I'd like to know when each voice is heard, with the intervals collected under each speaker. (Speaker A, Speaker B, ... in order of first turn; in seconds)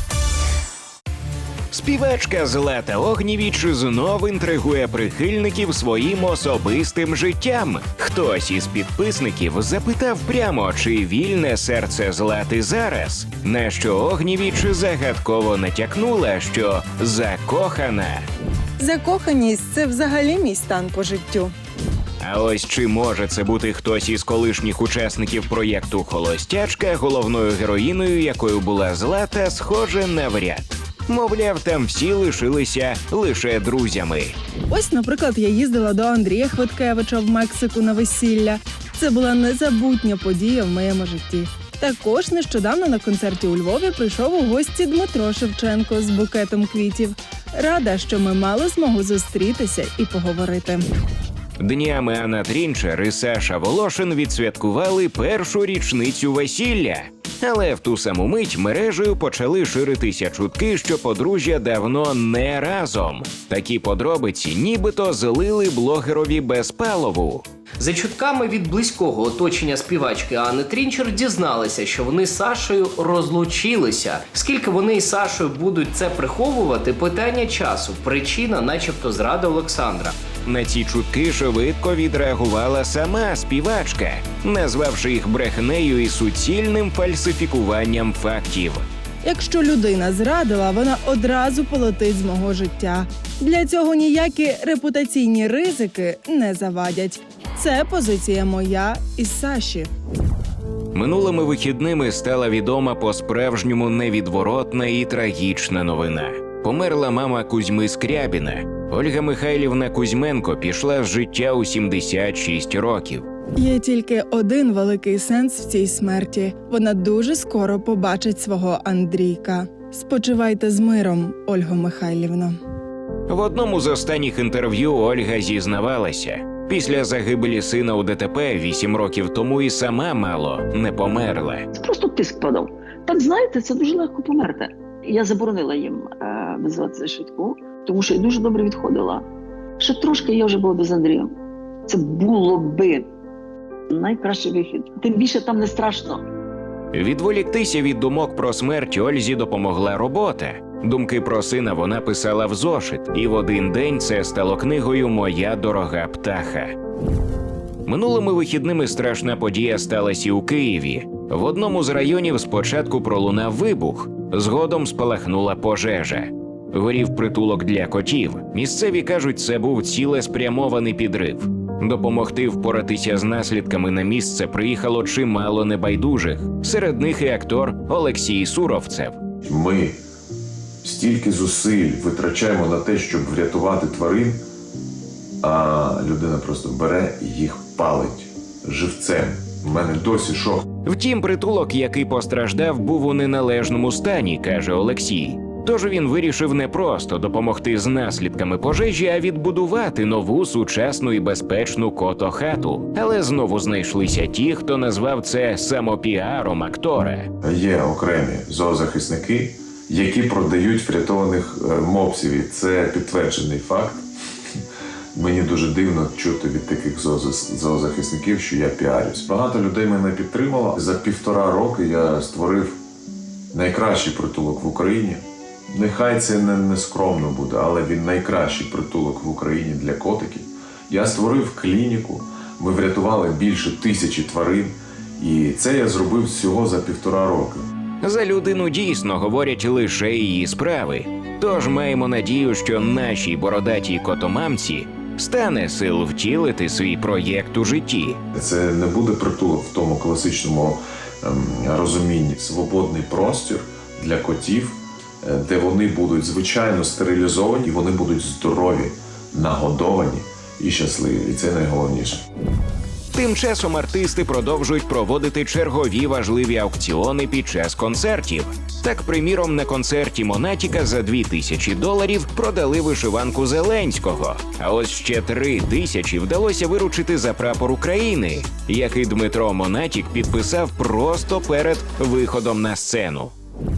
Speaker A: 1.7-18.2, 22.2-34.4, 51.6-67.4, 80.4-88.8, 100.9-113.2, 123.3-131.7, 146.9-156.7, 157.8-179.2, 190.8-207.3, 238.0-248.2, 263.1-283.3
Speaker B: 18.8-21.5, 34.7-50.8, 89.2-99.9, 113.6-122.6
Speaker C: 67.8-80.2
Speaker D: 131.7-139.2, 139.8-141.3, 141.9-143.1, 143.9-146.2
Speaker E: 179.4-180.0, 180.8-184.4, 185.4-190.6, 207.4-214.0, 215.1-222.7, 223.5-237.6, 248.3-262.2